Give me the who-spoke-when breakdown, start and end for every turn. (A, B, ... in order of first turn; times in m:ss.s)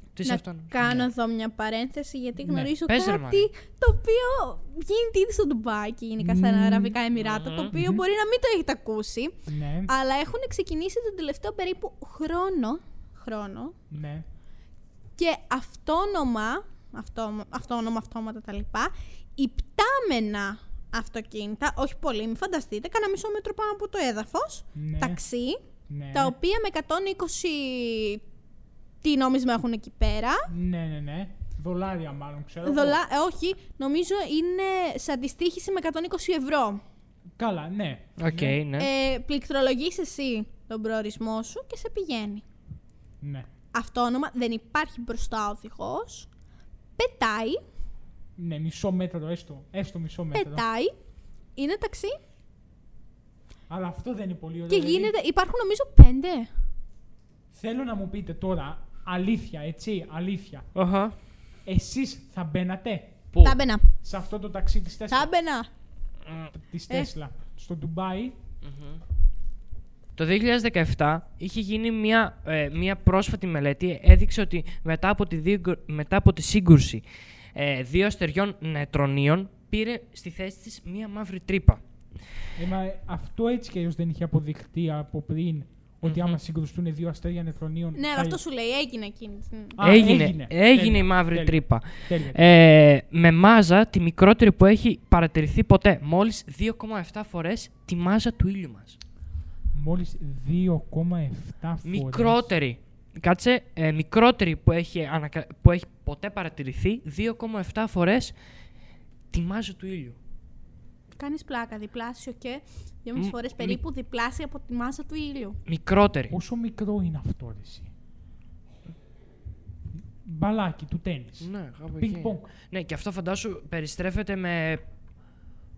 0:00.1-0:01.0 A
0:00.2-0:13.7 B
0:02.4-0:02.7 C
0:02.8-0:03.5 A
0:06.2-0:07.0 C
0:07.1-0:07.7 A
0:07.7-0:08.0 C
0:09.5-0:09.9 C
0:13.9-0:14.2 C
0:15.2-0:25.6 B
0:24.8-0:25.2 C
0:25.9-0:26.3 C
0:26.1-0:28.2 B
0:29.0-0:30.5 B
0:30.5-0:33.0 C
0:32.6-0:36.8 B
0:37.4-0:38.6 C
0:38.2-0:38.9 A
0:38.8-0:42.4 B
0:43.2-0:43.5 C
0:43.7-0:46.3 B
0:47.0-0:47.6 B
0:48.4-0:50.6 C
0:50.3-0:50.9 B
0:51.6-0:52.2 B
0:53.7-0:55.1 C
0:54.7-0:56.5 B
0:57.5-1:00.7 C
1:00.7-1:01.1 A
1:01.6-1:03.2 C
1:03.4-1:03.9 B
1:04.0-1:05.3 C
1:05.1-1:05.7 B
1:06.5-1:08.3 C
1:08.6-1:09.0 A
1:10.1-1:21.8 A
1:22.6-1:28.4 C
1:26.0-1:26.4 A
1:28.0-1:29.8 B
1:29.8-1:32.4 C
1:29.8-1:39.0 A
1:39.7-1:42.5 C
1:41.8-1:48.3 A
1:49.3-1:50.2 A
1:51.2-1:55.6 B
1:53.2-1:53.8 A
1:55.7-1:56.4 A
1:56.3-1:57.9 C
2:00.2-2:02.5 C
2:01.4-2:04.8 A